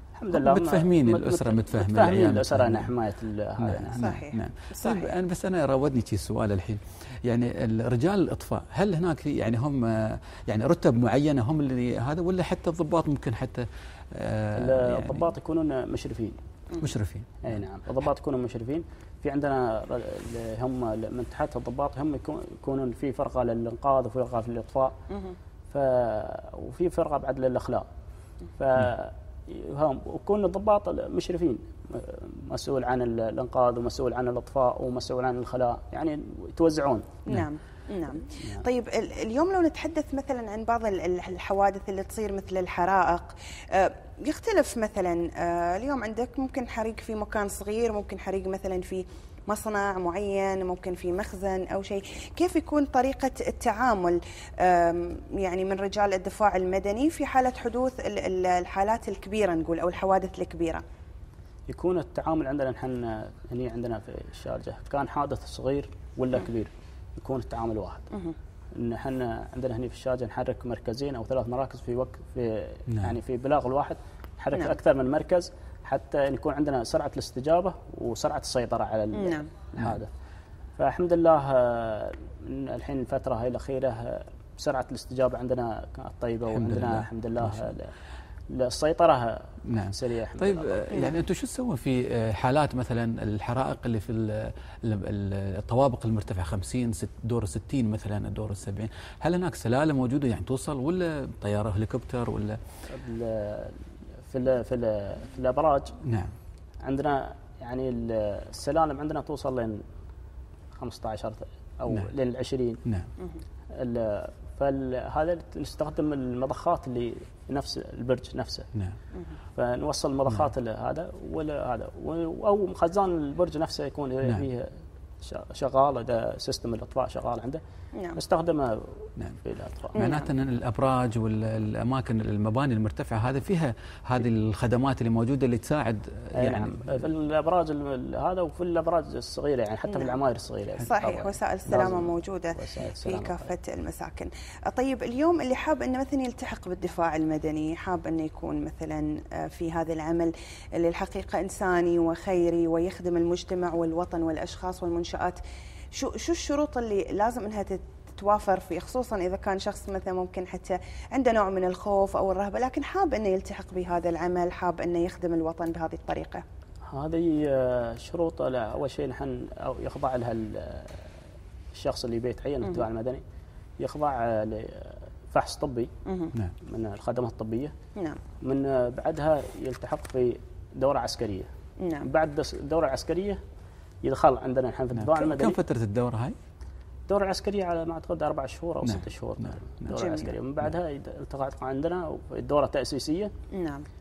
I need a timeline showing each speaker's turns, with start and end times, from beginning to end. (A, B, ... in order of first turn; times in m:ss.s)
0:00.1-0:04.0 A
0:00.3-0:02.9 B
0:03.6-0:15.3 B
0:04.0-0:05.1 C
0:14.5-0:16.4 A
0:16.8-0:17.6 B
0:17.4-0:24.9 A
0:25.7-0:27.8 A
0:28.6-0:37.1 A
0:37.2-1:00.8 C
1:01.7-1:08.1 A
1:08.7-1:20.1 A
1:19.1-1:19.4 C
1:20.8-1:27.9 A
1:26.5-1:27.7 B
1:28.5-1:30.8 A
1:29.6-1:42.6 B
1:30.9-1:31.2 C
1:42.9-1:46.0 A
1:46.0-1:46.3 B
1:46.8-1:49.8 A
1:50.8-1:52.8 A
1:53.7-1:58.7 A
1:59.5-2:07.6 A
2:07.9-2:08.2 C
2:08.1-2:10.0 A
2:09.9-2:17.1 B
2:09.9-2:10.2 C
2:16.3-2:23.5 A
2:19.9-2:20.2 C
2:20.8-2:35.4 C
2:35.9-2:46.4 C
2:46.9-2:51.1 A
2:51.7-2:53.2 A
2:53.8-2:55.9 A
2:56.0-2:56.3 C
2:56.6-2:57.7 A
2:58.4-3:01.5 A
3:01.8-3:02.1 C
3:02.0-3:03.4 A
3:04.0-3:05.6 A
3:04.9-3:06.4 B
3:07.1-3:13.3 A
3:08.8-3:10.0 B
3:09.9-3:10.3 C
3:13.5-3:13.8 C